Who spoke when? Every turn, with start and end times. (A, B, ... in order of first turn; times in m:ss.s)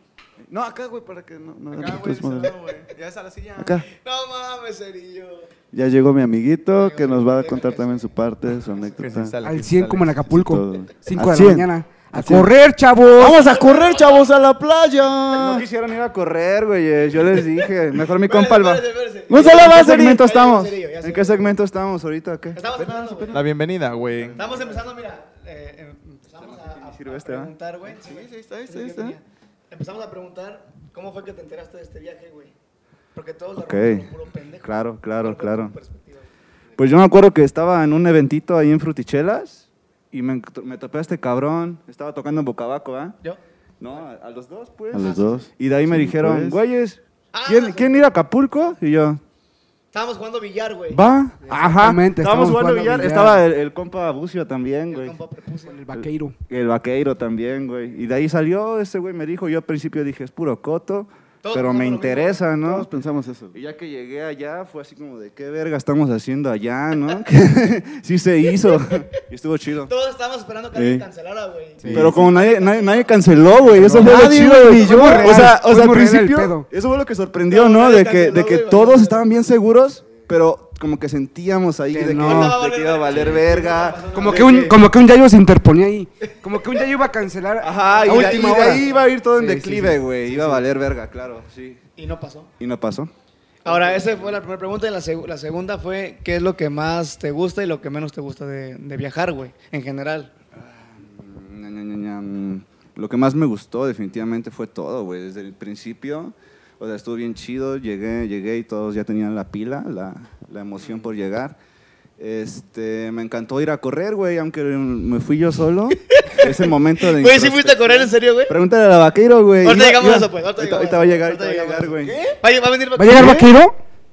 0:00.5-0:02.6 A
0:01.7-0:03.8 B
0:03.6-0:03.9 A
0:04.0-0:05.5 C
0:05.7-0:09.4 A
0:06.8-0:08.1 C
0:09.0-0:10.2 B
0:09.4-0:13.4 D
0:10.3-0:12.5 A
0:13.2-0:15.7 A
0:13.4-0:14.3 C
0:15.4-0:22.7 E
0:18.2-0:21.6 C
0:19.3-0:20.3 A
0:22.5-0:23.4 C
0:22.8-0:23.4 A
0:23.3-0:24.4 B
0:24.4-0:24.7 A
0:24.4-0:32.5 C
0:26.4-0:27.5 E
0:28.0-0:29.2 A
0:33.2-0:36.2 C
0:33.6-0:34.1 E
0:34.6-0:35.8 E
0:36.8-0:43.2 E
0:43.8-0:49.2 E
0:44.9-0:46.6 A
0:45.0-0:45.4 C
0:47.3-0:48.1 C
0:49.9-0:51.6 C
0:50.9-0:55.2 E
0:51.5-0:53.4 D
0:54.9-0:55.8 C
0:55.7-0:56.4 D
0:56.0-1:02.9 E
1:01.4-1:02.4 C
1:02.6-1:03.6 A
1:03.5-1:09.9 E
1:08.6-1:09.0 C
1:09.8-1:14.3 C
1:10.7-1:11.1 A
1:11.8-1:12.1 D
1:11.9-1:12.1 A
1:11.9-1:24.8 E
1:13.9-1:16.7 D
1:13.9-1:14.8 A
1:14.8-1:15.3 C
1:17.5-1:19.2 C
1:21.9-1:22.6 D
1:22.1-1:24.8 C
1:24.1-1:30.6 D
1:27.6-1:31.8 E
1:27.8-1:29.0 C
1:32.0-1:32.5 C
1:32.6-1:33.1 E
1:33.6-1:40.3 C
1:33.6-1:34.3 E
1:40.6-1:51.6 E
1:52.2-2:02.4 E
1:56.2-1:58.6 C
1:59.6-2:03.4 C
2:03.0-2:03.8 D
2:03.2-2:03.4 E